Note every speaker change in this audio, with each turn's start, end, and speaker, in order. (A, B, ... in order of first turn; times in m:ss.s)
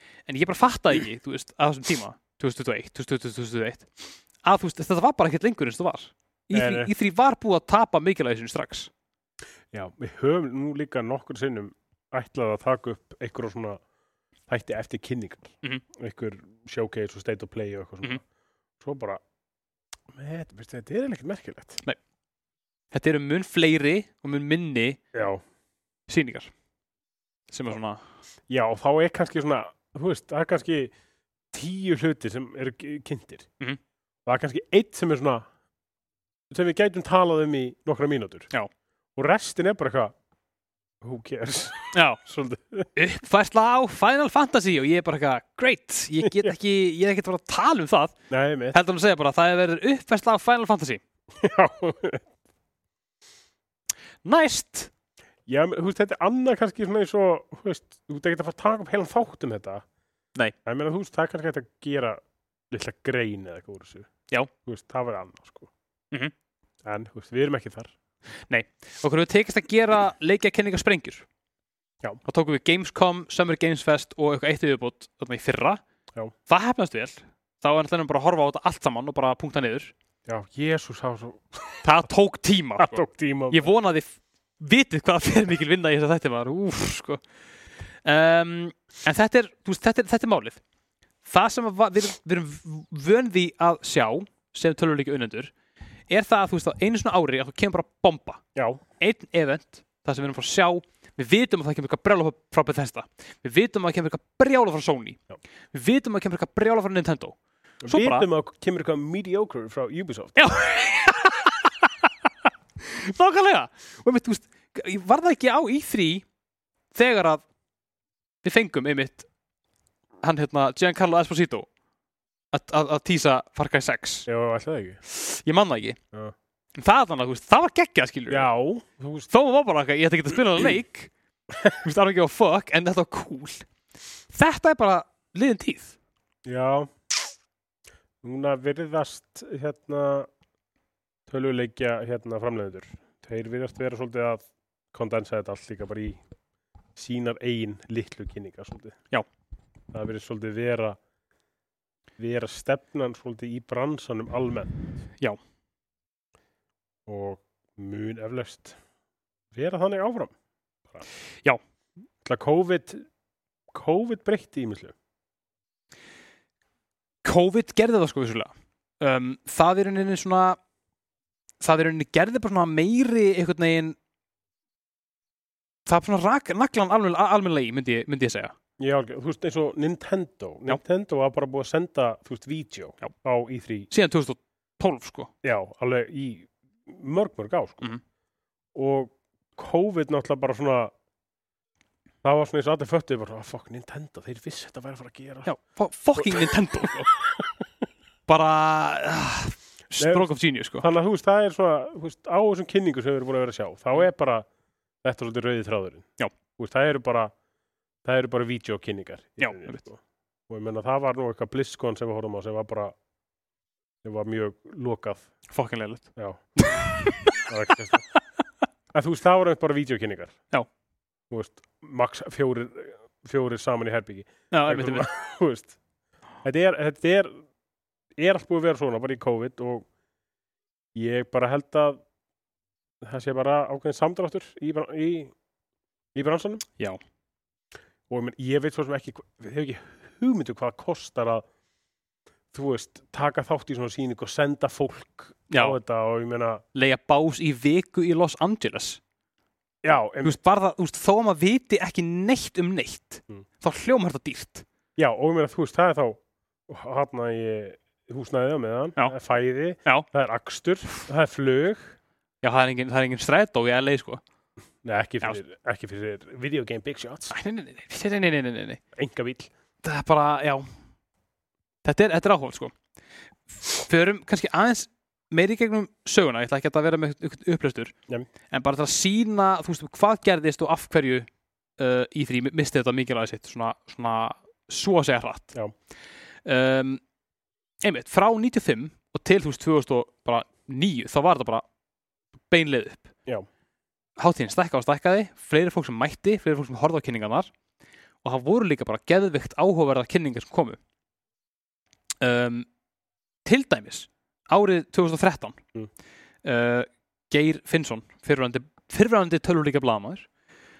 0:00.3-0:03.9 A
0:04.4-0:08.9 A
0:06.5-0:06.9 B
0:09.7-0:13.8 B
0:14.5-0:18.2 B
0:18.8-0:19.2 B
0:20.1-0:21.8 B
0:22.9-0:25.0 A
0:25.1-0:25.4 B
0:26.1-0:26.5 A
0:27.5-0:28.0 A
0:28.5-0:30.9 B
0:31.5-0:33.5 B
0:34.2-0:35.4 B
0:36.5-0:38.5 B
0:39.2-0:40.1 B
0:41.0-0:42.9 B
0:41.9-0:42.2 A
0:43.0-0:48.2 A
0:46.2-0:46.5 B
0:48.3-0:48.8 B
0:48.7-0:51.0 A
0:51.4-0:52.2 B
0:54.2-0:54.9 A
0:55.5-0:59.8 B
1:00.6-1:04.1 B
1:04.6-1:05.7 B
1:06.8-1:07.9 B
1:08.5-1:11.2 A
1:12.2-1:15.8 A
1:16.5-1:19.9 A
1:20.2-1:21.8 B
1:21.8-1:27.2 A
1:22.8-1:23.7 B
1:28.0-1:30.6 A
1:31.2-1:35.5 A
1:36.1-1:38.4 A
1:38.6-1:38.8 B
1:39.0-1:45.2 A
1:45.7-1:47.4 A
1:47.8-1:50.4 B
1:47.9-1:48.2 A
1:50.4-1:52.1 A
1:52.8-1:56.2 A
1:56.9-1:57.4 A
1:58.4-1:59.3 A
2:00.2-2:01.7 A
2:02.5-2:04.3 A
2:04.3-2:05.0 B
2:05.0-2:06.0 A
2:06.8-2:08.5 A
2:08.3-2:09.3 B
2:09.3-2:11.1 A
2:11.8-2:13.6 A
2:14.3-2:16.0 A
2:16.4-2:16.9 B
2:18.2-2:20.3 B
2:21.3-2:26.2 B
2:27.0-2:29.0 B
2:29.9-2:31.0 B
2:32.2-2:34.7 B
2:37.1-2:38.8 B
2:39.5-2:40.3 B
2:42.2-2:43.0 B
2:43.7-2:44.9 B
2:47.2-2:50.6 A
2:51.6-2:54.0 A
2:55.9-2:58.5 A
2:58.8-3:03.9 B
3:03.9-3:05.3 A
3:05.4-3:07.9 B
3:08.7-3:10.9 B
3:12.2-3:15.5 B
3:15.4-3:17.1 A
3:16.2-3:17.5 B
3:18.3-3:20.9 A
3:20.0-3:24.5 B
3:25.0-3:27.3 B
3:28.0-3:32.9 B
3:29.4-3:29.8 A
3:34.0-3:35.3 B
3:35.5-3:37.4 A
3:36.2-3:36.4 B
3:37.5-3:38.0 B
3:38.9-3:40.3 B
3:41.3-3:45.7 B
3:44.5-3:45.1 A
3:46.4-3:47.4 B
3:48.2-3:49.9 B
3:50.9-3:52.0 B
3:53.0-3:55.3 B
3:56.1-3:56.6 B
3:58.1-4:01.4 B
4:02.5-4:06.6 B
4:05.5-4:05.8 A
4:06.7-4:09.0 A
4:09.8-4:10.4 B
4:10.2-4:14.6 A
4:15.0-4:22.0 B
4:22.4-4:24.2 A
4:24.8-4:27.3 B
4:27.3-4:28.8 A
4:29.0-4:29.5 B
4:29.8-4:30.7 A
4:31.8-4:32.7 A
4:33.7-4:37.9 A
4:38.5-4:41.3 A
4:41.8-4:45.5 A
4:46.4-4:47.0 A
4:47.8-4:51.6 A
4:52.5-4:53.1 A
4:54.2-4:57.5 A
4:58.2-5:00.8 A
5:02.2-5:02.7 A
5:03.4-5:05.6 A
5:06.4-5:10.3 A